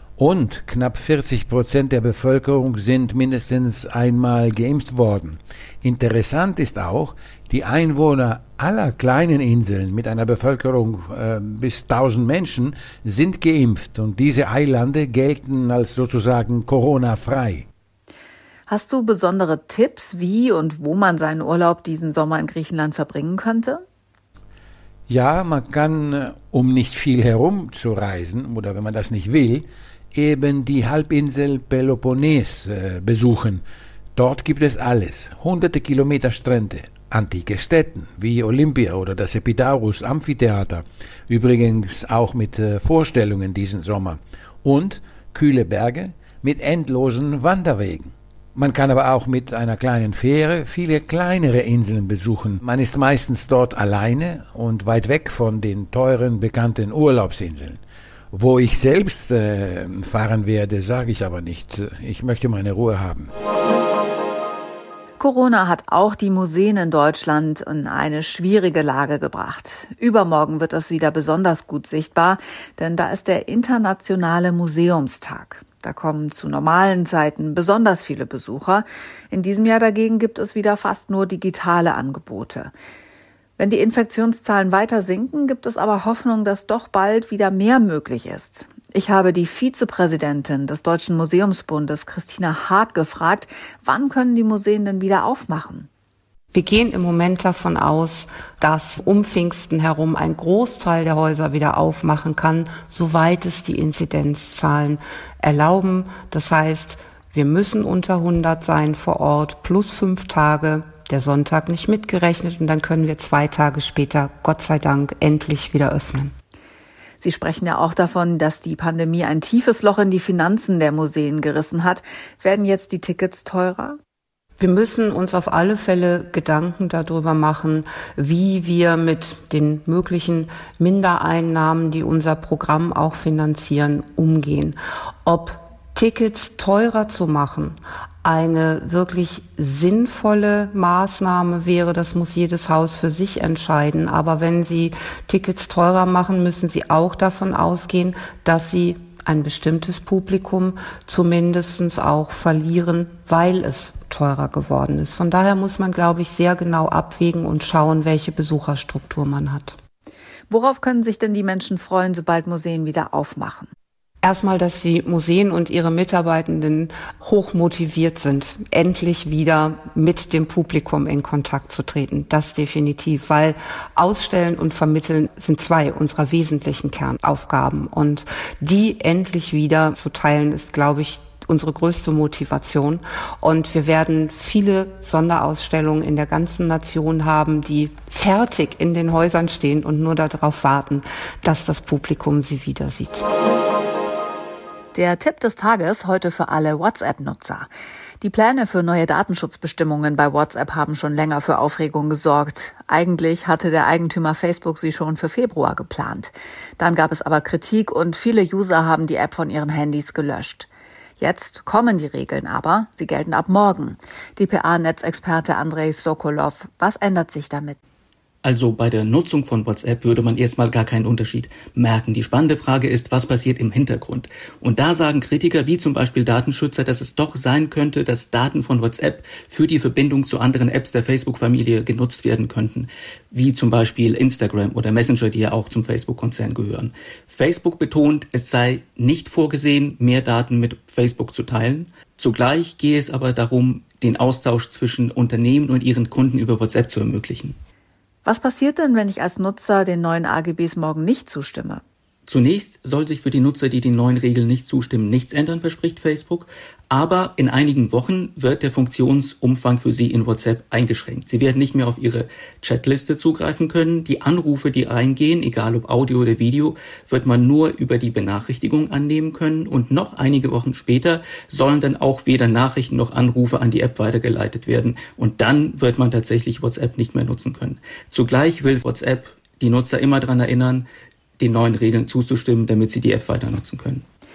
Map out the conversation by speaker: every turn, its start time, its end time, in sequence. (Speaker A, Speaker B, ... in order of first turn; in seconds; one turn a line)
Speaker A: 0.2-17.6
Speaker B: 18.7-23.8
Speaker A: 25.1-33.6
Speaker A: 34.1-57.8
Speaker A: 58.3-63.3
Speaker B: 65.2-82.7
Speaker B: 83.6-95.9
Speaker C: 96.5-116.3
Speaker B: 117.2-124.0
Speaker C: 124.6-159.8
Speaker B: 160.5-163.7
Speaker C: 164.2-193.2
Speaker B: 194.9-197.7
Speaker B: 198.2-210.7
Speaker B: 211.2-217.8
Speaker D: 218.4-247.6
Speaker B: 248.2-251.8
Speaker D: 252.2-280.9
Speaker D: 281.4-284.1